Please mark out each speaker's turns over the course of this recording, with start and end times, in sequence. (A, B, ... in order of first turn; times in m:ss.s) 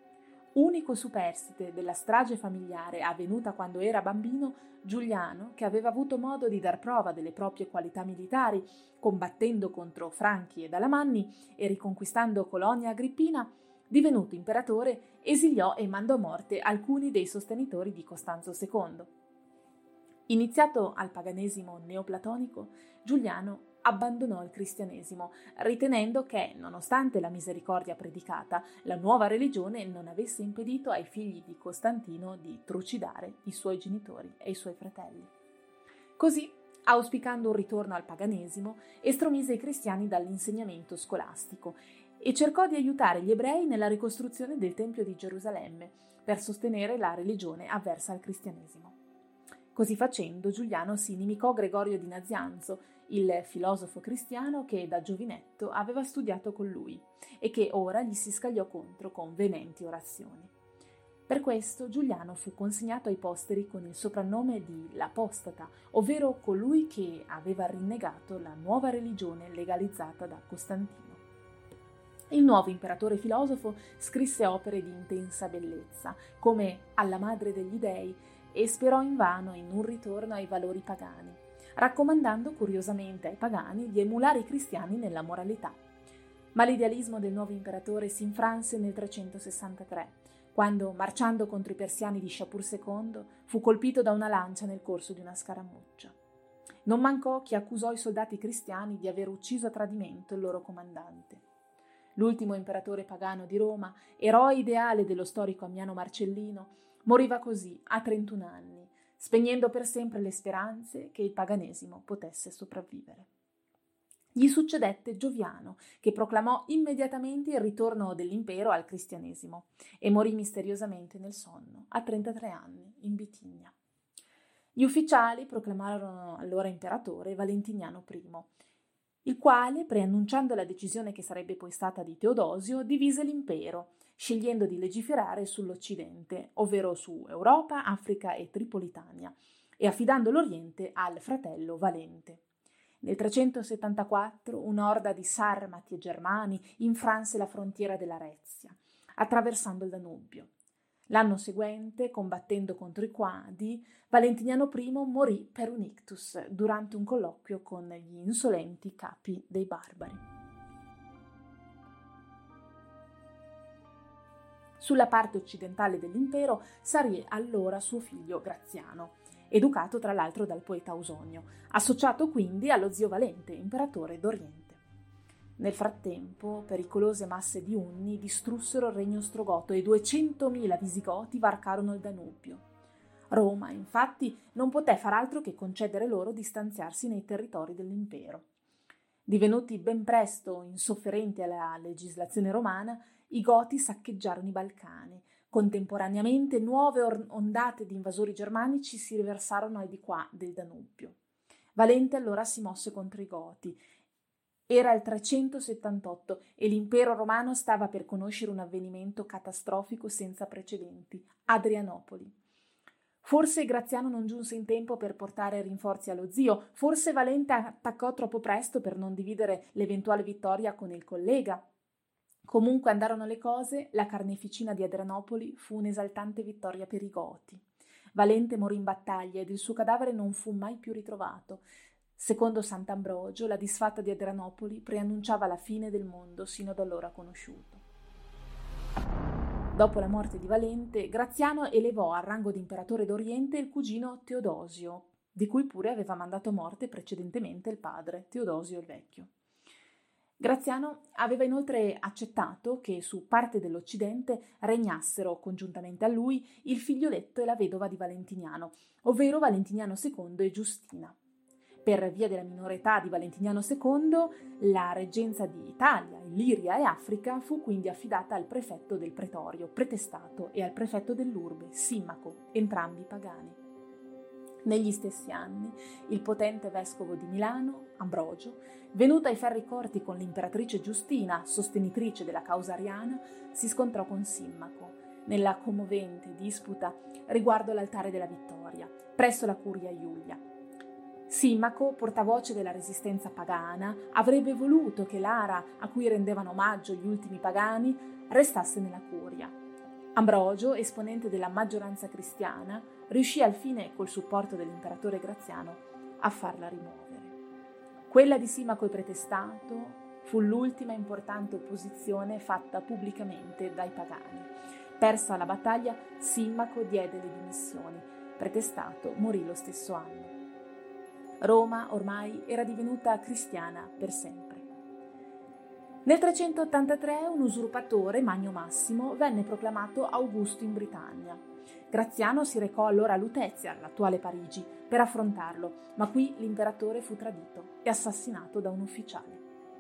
0:00.6-0:19.1 A
0:20.3-0:35.3 A
0:36.2-0:49.0 A
0:49.7-1:00.5 A
1:01.3-1:11.2 A
1:12.3-1:25.8 A
1:26.5-1:36.2 A
1:36.8-1:41.4 A
1:42.2-1:53.3 A
1:54.4-2:03.7 A
2:04.8-2:08.5 A
2:09.2-2:22.4 A
2:23.0-2:30.5 A
2:31.1-2:40.2 A
2:44.8-2:54.8 A
2:55.6-3:02.6 A
3:03.3-3:08.5 A
3:09.3-3:21.2 A
3:21.8-3:23.8 A
3:24.7-3:32.3 A
3:33.2-3:41.6 A
3:42.5-3:47.6 A
3:48.2-3:51.6 A
3:52.2-3:57.8 A
3:59.7-4:09.3 A
4:10.4-4:21.2 A
4:21.8-4:33.6 A
4:34.6-4:50.4 A
4:51.3-4:59.5 A
5:00.2-5:07.4 A
5:08.1-5:20.3 A
5:21.4-5:24.7 A
5:26.0-5:39.4 A